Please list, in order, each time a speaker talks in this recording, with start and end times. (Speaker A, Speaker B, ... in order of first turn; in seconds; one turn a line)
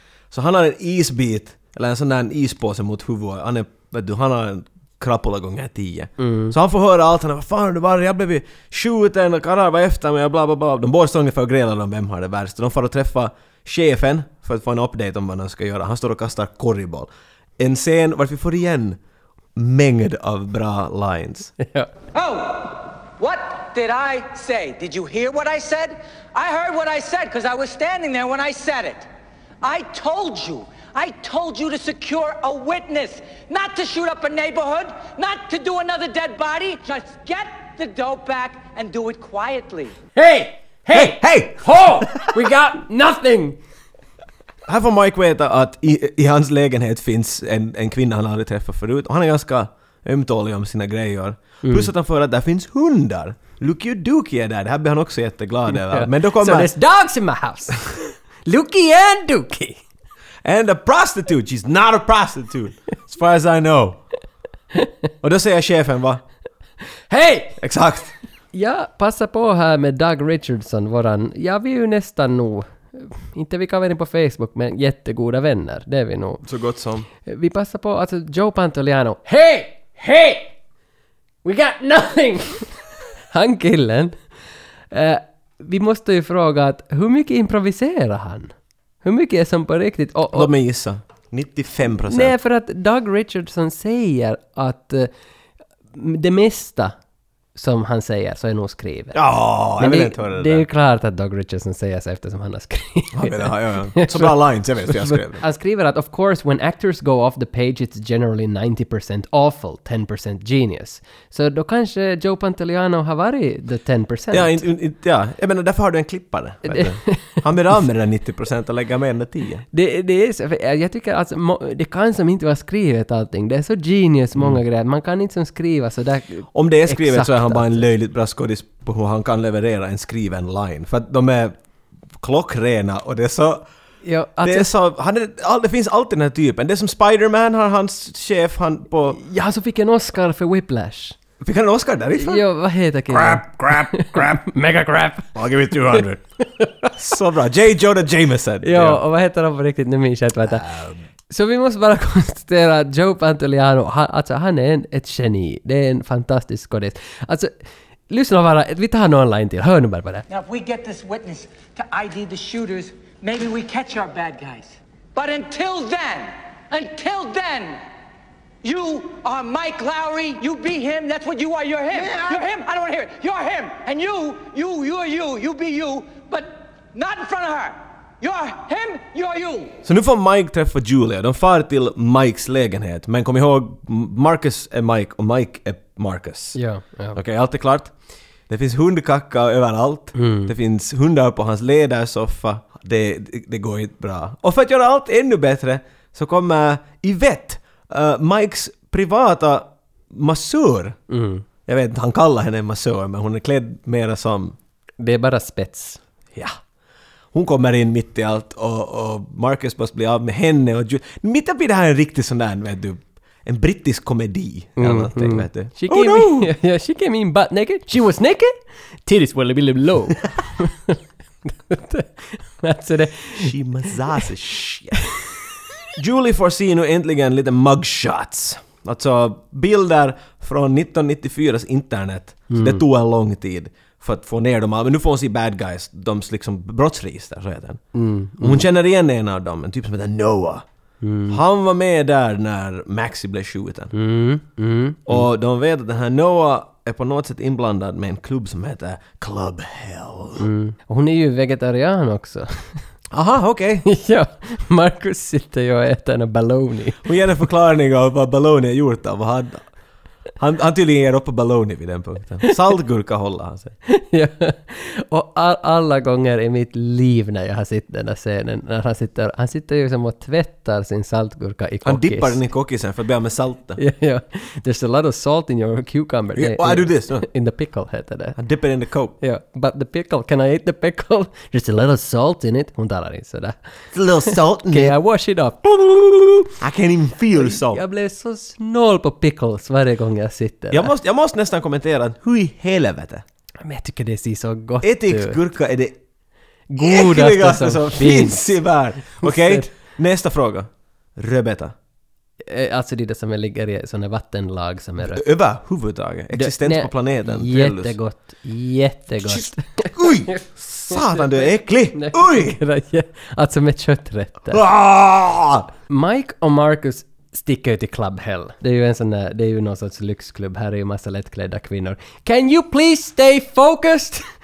Speaker A: 0.3-19.0
Speaker B: 6.2-6.5
Speaker A: 19.6-21.5
Speaker B: 21.6-21.9
Speaker C: 22.1-29.1
Speaker C: 29.6-40.0
Speaker B: 40.1-43.6
Speaker A: 40.9-42.3
Speaker A: 44.7-56.7
Speaker B: 51.6-51.9
Speaker B: 55.7-59.8
Speaker A: 60.4-64.0
Speaker A: 65.2-66.2
Speaker B: 67.1-67.6
Speaker A: 67.6-68.1
Speaker B: 68.5-76.4
Speaker A: 76.4-77.1
Speaker B: 77.2-80.5
Speaker B: 81.4-82.7
Speaker B: 83.3-84.1
Speaker B: 84.9-88.5
Speaker B: 89.0-90.5
Speaker A: 90.3-92.3
Speaker B: 92.1-95.1
Speaker B: 95.9-96.9
Speaker B: 97.5-99.2
Speaker A: 99.1-100.7
Speaker B: 99.8-114.6
Speaker A: 103.1-105.4
Speaker A: 114.3-119.6
Speaker B: 116.6-117.4
Speaker B: 119.7-127.9
Speaker A: 126.5-131.5
Speaker A: 132.2-133.6
Speaker B: 134.0-134.7
Speaker A: 134.4-139.2
Speaker B: 139.2-141.2
Speaker A: 141.4-142.4
Speaker B: 142.2-146.0
Speaker A: 143.1-144.4
Speaker A: 145.3-146.2
Speaker B: 146.6-146.9
Speaker A: 146.9-149.0
Speaker B: 148.6-150.7
Speaker A: 150.5-151.0
Speaker B: 151.3-157.5
Speaker B: 158.1-160.2
Speaker C: 160.3-167.8
Speaker C: 168.6-179.8
Speaker A: 179.8-186.6
Speaker B: 186.6-187.2
Speaker A: 187.1-187.9
Speaker A: 188.5-201.0
Speaker B: 190.2-190.5
Speaker B: 201.1-201.4
Speaker A: 201.7-204.6
Speaker B: 205.0-206.0
Speaker A: 207.3-216.5
Speaker B: 214.8-223.5
Speaker A: 223.3-225.0
Speaker A: 226.0-237.8
Speaker B: 232.5-232.8
Speaker B: 237.9-238.7
Speaker A: 238.4-240.6
Speaker B: 241.0-241.4
Speaker A: 241.3-243.9
Speaker B: 243.9-245.3
Speaker A: 245.1-250.4
Speaker B: 250.4-252.8
Speaker A: 253.1-253.8
Speaker B: 253.8-257.0
Speaker A: 257.0-259.6
Speaker A: 260.4-263.7
Speaker B: 263.9-272.4
Speaker A: 271.8-273.8
Speaker B: 273.8-278.4
Speaker A: 276.4-277.3
Speaker A: 278.4-279.1
Speaker B: 279.2-283.6
Speaker A: 283.9-284.9
Speaker B: 284.2-285.7
Speaker A: 285.7-287.8
Speaker B: 287.4-290.9
Speaker A: 290.7-293.2
Speaker B: 293.6-295.4
Speaker A: 294.8-295.9
Speaker B: 296.7-298.5
Speaker A: 296.8-301.7
Speaker B: 299.1-299.7
Speaker B: 302.5-305.2
Speaker A: 305.0-307.9
Speaker B: 306.3-314.6
Speaker A: 309.2-312.6
Speaker A: 314.5-315.7
Speaker B: 315.9-324.2